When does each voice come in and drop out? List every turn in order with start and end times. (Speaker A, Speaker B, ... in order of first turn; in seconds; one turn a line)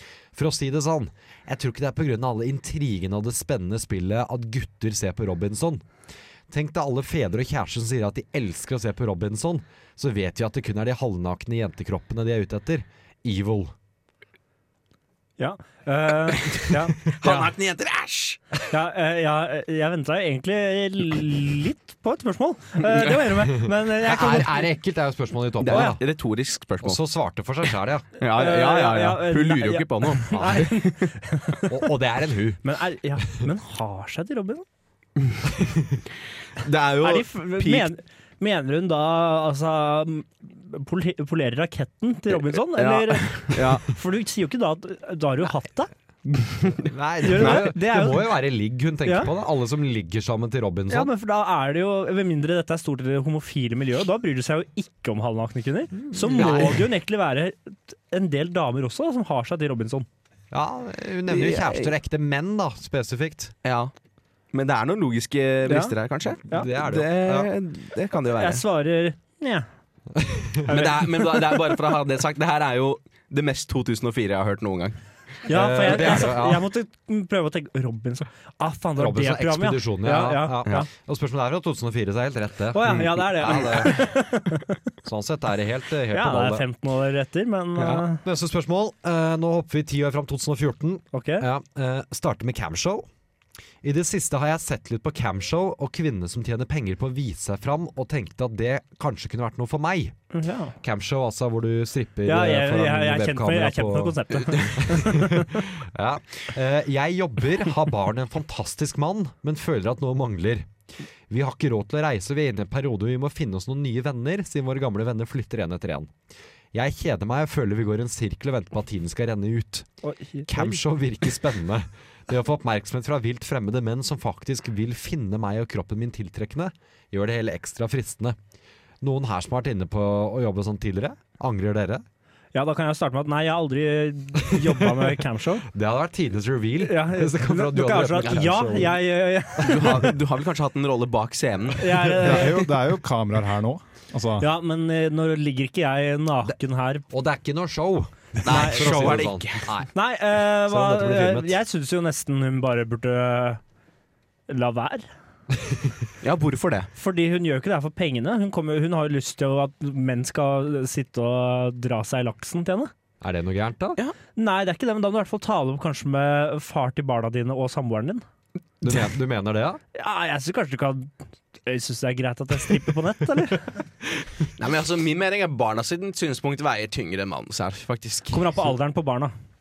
Speaker A: 0.3-5.8
Speaker A: 6.5-13.7
Speaker B: 15.4-17.5
Speaker C: 16.4-18.5
Speaker B: 18.7-24.7
Speaker A: 23.5-26.0
Speaker C: 25.6-27.0
Speaker B: 25.7-26.0
Speaker A: 26.8-28.1
Speaker C: 28.2-31.1
Speaker B: 28.3-31.8
Speaker A: 30.3-30.8
Speaker A: 31.7-32.6
Speaker B: 32.6-34.6
Speaker A: 35.5-36.0
Speaker C: 36.6-37.9
Speaker B: 37.0-45.9
Speaker C: 42.7-43.8
Speaker A: 46.4-51.1
Speaker C: 46.6-47.7
Speaker B: 47.2-48.3
Speaker B: 49.0-49.3
Speaker B: 50.9-60.0
Speaker A: 56.2-56.8
Speaker C: 56.3-56.8
Speaker A: 60.5-63.5
Speaker C: 61.3-61.9
Speaker C: 63.6-63.9
Speaker C: 64.5-68.6
Speaker B: 65.7-65.9
Speaker A: 66.5-67.5
Speaker B: 68.3-69.7
Speaker A: 70.1-70.7
Speaker B: 70.7-71.6
Speaker C: 70.7-75.0
Speaker B: 75.5-80.9
Speaker A: 75.5-76.7
Speaker A: 79.0-84.0
Speaker B: 82.7-84.8
Speaker C: 82.9-84.0
Speaker A: 85.0-86.6
Speaker B: 86.1-88.2
Speaker C: 87.8-88.0
Speaker A: 88.0-93.0
Speaker B: 91.1-91.5
Speaker A: 93.8-100.2
Speaker B: 100.3-100.7
Speaker A: 100.8-110.7
Speaker B: 102.2-105.7
Speaker A: 111.3-116.1
Speaker A: 116.7-119.9
Speaker B: 120.0-120.8
Speaker A: 120.5-128.3
Speaker A: 129.0-132.0
Speaker B: 132.5-135.7
Speaker A: 134.4-139.0
Speaker B: 136.8-140.1
Speaker C: 138.2-138.5
Speaker C: 139.6-142.7
Speaker A: 139.7-140.1
Speaker B: 141.8-142.6
Speaker D: 142.2-144.5
Speaker B: 144.4-147.1
Speaker A: 147.1-149.9
Speaker C: 148.4-149.7
Speaker B: 148.4-149.3
Speaker B: 149.9-153.6
Speaker A: 150.7-151.6
Speaker B: 154.5-155.1
Speaker C: 156.2-156.9
Speaker B: 156.9-162.9
Speaker A: 163.2-164.0
Speaker B: 164.3-168.2
Speaker A: 168.8-169.8
Speaker B: 169.9-171.1
Speaker B: 171.6-173.8
Speaker C: 174.6-178.6
Speaker B: 178.3-179.3